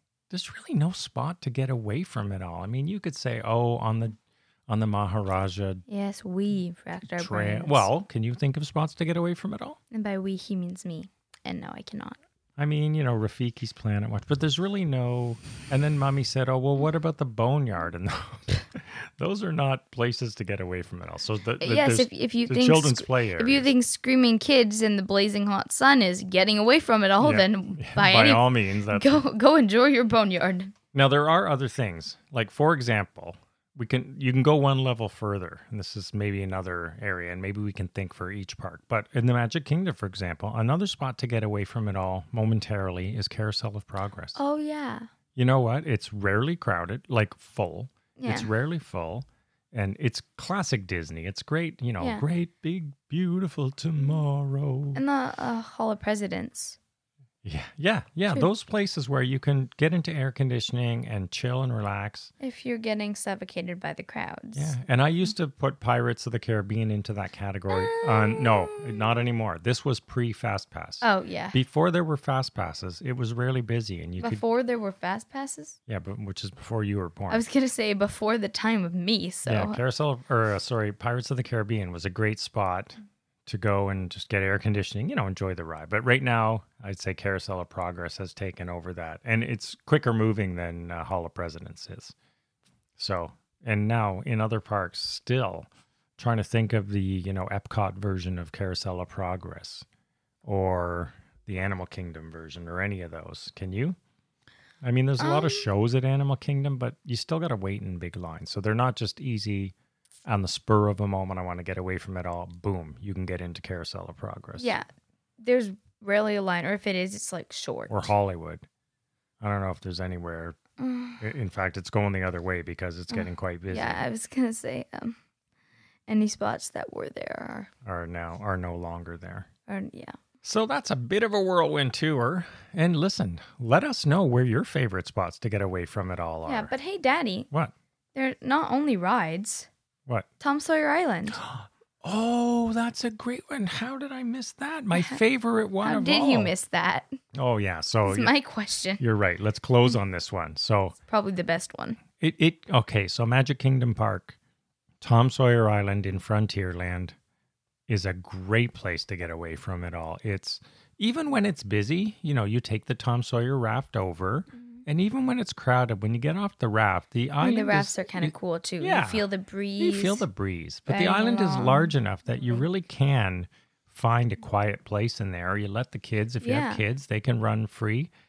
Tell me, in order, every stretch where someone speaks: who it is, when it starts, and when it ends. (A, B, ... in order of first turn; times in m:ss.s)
0:00.3-0:05.8 A
0:05.9-0:07.9 B
0:07.0-0:09.8 A
0:09.9-0:12.2 B
0:12.6-0:23.7 A
0:21.6-0:30.7 B
0:27.2-0:29.2 A
0:30.9-0:44.4 A
0:44.3-0:45.1 B
0:45.4-0:55.0 A
0:48.2-0:48.5 B
0:52.0-0:52.2 B
0:54.9-0:56.8 B
0:57.4-1:02.3 A
1:02.4-1:04.7 B
1:04.5-1:14.4 A
1:07.7-1:08.8 B
1:11.0-1:11.6 B
1:14.2-1:15.8 B
1:15.9-1:17.4 A
1:17.3-1:19.8 B
1:19.4-1:32.1 A
1:33.0-1:39.8 A
1:40.4-1:44.0 A
1:44.8-1:49.7 A
1:45.2-1:45.7 B
1:50.2-1:54.8 A
1:54.6-1:54.8 B
1:55.4-1:58.1 B
1:57.9-1:58.7 A
1:59.4-2:00.6 A
2:00.8-2:01.3 B
2:01.2-2:04.0 A
2:03.1-2:05.2 B
2:06.1-2:07.7 B
2:07.8-2:09.5 A
2:09.7-2:10.2 B
2:10.4-2:16.7 A
2:16.4-2:17.5 B
2:18.1-2:19.7 B
2:20.4-2:21.4 B
2:21.3-2:26.5 A
2:25.8-2:27.2 B
2:27.3-2:28.3 A
2:28.0-2:29.0 B
2:29.0-2:31.0 A
2:31.1-2:32.0 B
2:32.2-2:34.4 A
2:35.0-2:37.2 A
2:37.9-2:49.3 A
2:47.4-2:50.2 B
2:49.8-2:58.1 A
2:50.9-2:51.9 B
2:56.4-2:56.8 B